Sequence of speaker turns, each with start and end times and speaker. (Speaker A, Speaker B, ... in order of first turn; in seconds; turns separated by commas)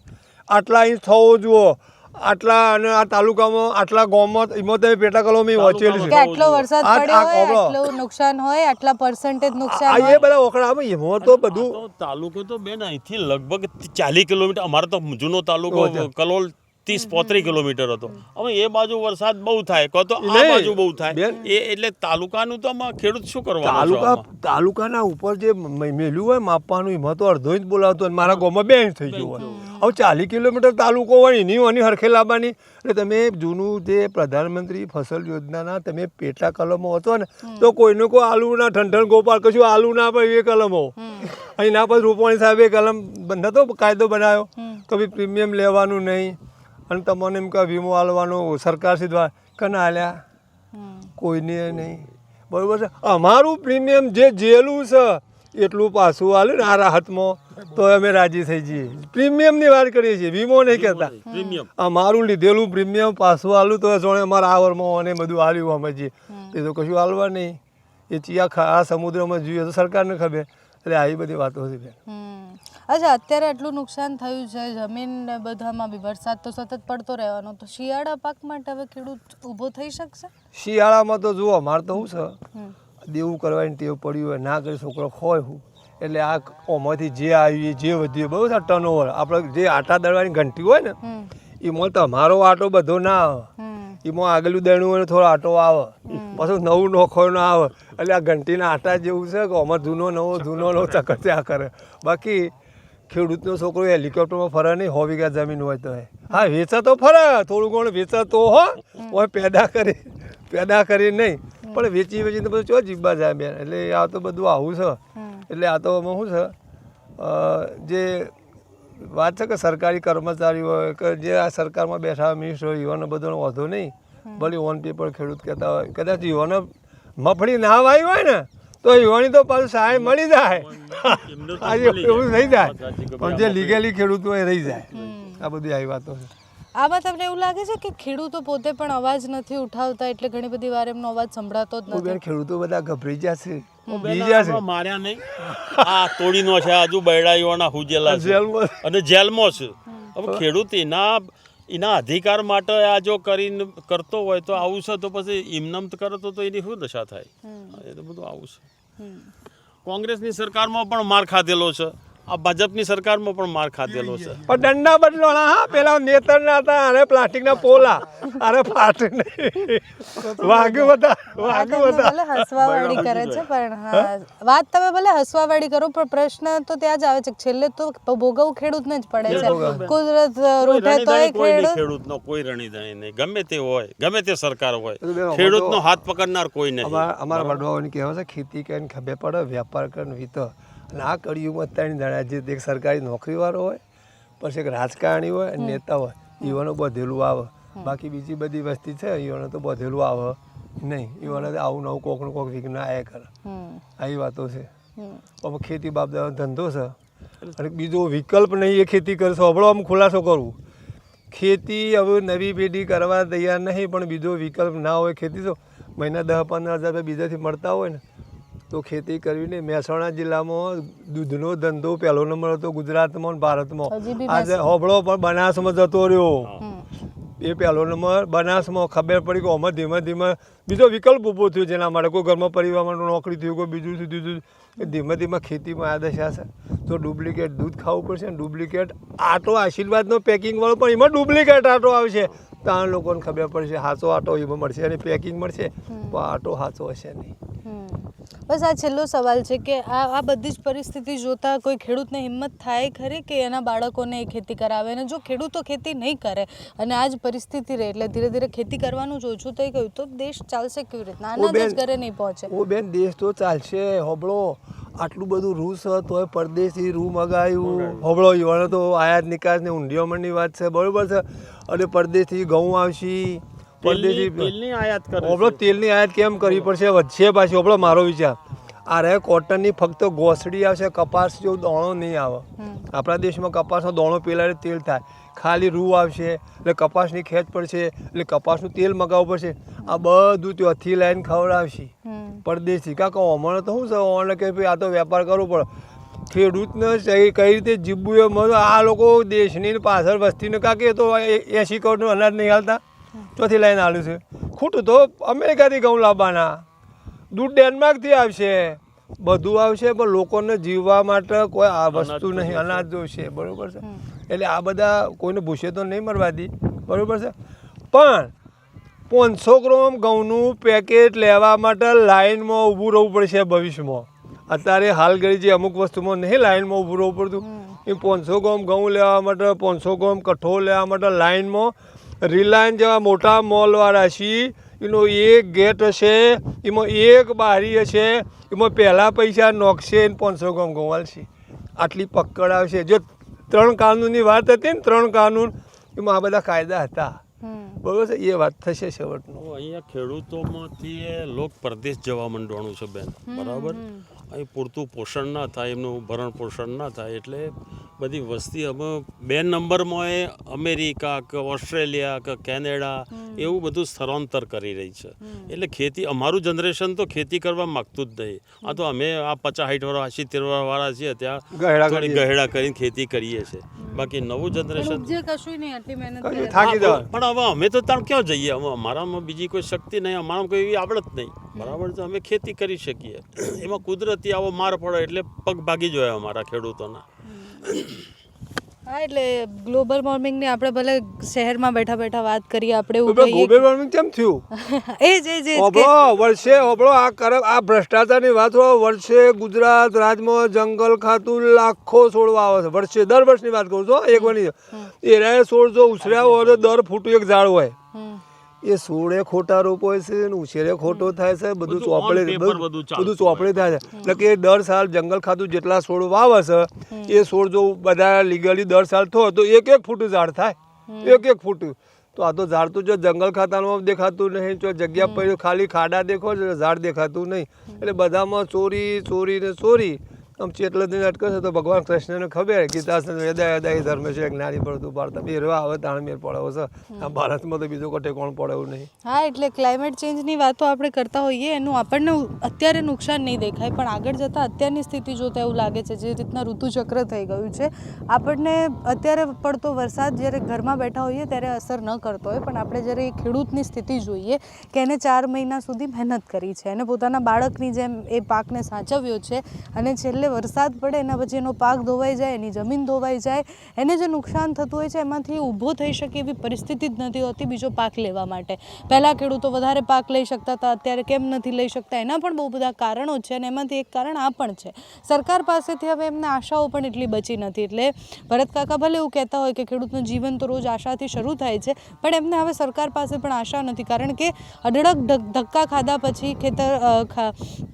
Speaker A: 0.5-6.2, Speaker B: 5.5-6.7, Speaker C: 6.0-10.2, Speaker A: 6.8-7.8, Speaker A: 9.6-11.8, Speaker B: 9.9-10.3, Speaker B: 11.2-24.2, Speaker A: 15.7-16.1, Speaker C: 16.9-17.5, Speaker A: 20.2-21.4, Speaker A: 23.6-46.4, Speaker B: 29.1-29.6, Speaker C: 29.4-29.9, Speaker C: 37.4-37.7, Speaker C: 41.0-41.3, Speaker C: 44.6-44.8, Speaker A: 46.9-50.2, Speaker C: 50.7-51.1, Speaker A: 51.2-61.1, Speaker B: 60.7-61.7, Speaker C: 61.2-61.6, Speaker A: 61.8-67.6, Speaker C: 66.3-66.6, Speaker A: 68.1-72.0, Speaker C: 72.1-80.3, Speaker A: 80.5-82.4, Speaker A: 83.0-91.0, Speaker C: 91.0-91.3, Speaker A: 91.6-93.5, Speaker C: 93.6-94.0, Speaker A: 94.0-102.5, Speaker C: 96.1-96.5, Speaker B: 100.5-101.0, Speaker A: 103.1-116.5, Speaker C: 115.2-115.5, Speaker A: 117.2-118.3, Speaker A: 119.0-136.3, Speaker C: 124.2-124.5, Speaker B: 129.9-133.8, Speaker B: 134.9-135.2, Speaker C: 134.9-135.4, Speaker C: 136.8-142.2, Speaker A: 141.9-144.6, Speaker C: 143.9-144.1, Speaker B: 143.9-158.6, Speaker A: 145.4-146.3, Speaker A: 148.0-148.8, Speaker C: 157.4-157.8, Speaker C: 159.0-159.3, Speaker B: 159.8-164.4, Speaker A: 164.4-172.5, Speaker C: 170.5-181.8, Speaker B: 172.6-173.5, Speaker B: 179.2-180.0, Speaker A: 179.2-179.8, Speaker B: 180.6-187.6, Speaker A: 185.0-185.8, Speaker A: 186.8-193.8, Speaker A: 194.4-203.3, Speaker C: 203.4-203.8, Speaker A: 204.0-204.7, Speaker C: 205.0-205.2, Speaker A: 205.4-206.9, Speaker A: 207.6-210.6, Speaker A: 211.3-218.0, Speaker A: 218.7-226.5, Speaker C: 223.9-224.6, Speaker C: 226.6-226.8, Speaker A: 227.4-247.3, Speaker C: 245.9-246.2, Speaker C: 247.6-262.5, Speaker A: 261.4-261.8, Speaker A: 262.5-274.5, Speaker B: 267.6-268.1, Speaker B: 273.8-275.6, Speaker A: 275.2-291.9, Speaker C: 282.6-282.9, Speaker C: 292.0-292.4, Speaker A: 292.4-295.7, Speaker A: 296.3-302.8, Speaker A: 303.4-306.6, Speaker A: 307.3-317.3, Speaker B: 311.9-312.9, Speaker A: 317.9-318.3, Speaker A: 319.1-347.2, Speaker C: 327.4-327.8, Speaker C: 347.4-347.8, Speaker A: 347.8-349.4, Speaker B: 349.4-375.1, Speaker C: 353.3-354.0, Speaker C: 363.1-363.5, Speaker C: 365.2-365.5, Speaker A: 371.5-372.3, Speaker C: 373.8-374.1, Speaker C: 374.8-377.0, Speaker A: 376.2-377.1, Speaker B: 376.6-387.0, Speaker C: 381.5-381.8, Speaker C: 387.3-387.7, Speaker B: 387.6-388.1, Speaker C: 388.9-393.6, Speaker A: 393.1-394.4, Speaker C: 394.5-395.9, Speaker A: 395.5-407.8, Speaker C: 404.1-404.9, Speaker B: 406.0-406.8, Speaker C: 407.9-408.2, Speaker A: 408.6-438.9, Speaker B: 411.6-414.2, Speaker C: 416.9-417.2, Speaker C: 420.9-421.2, Speaker C: 425.0-425.3, Speaker C: 439.0-487.6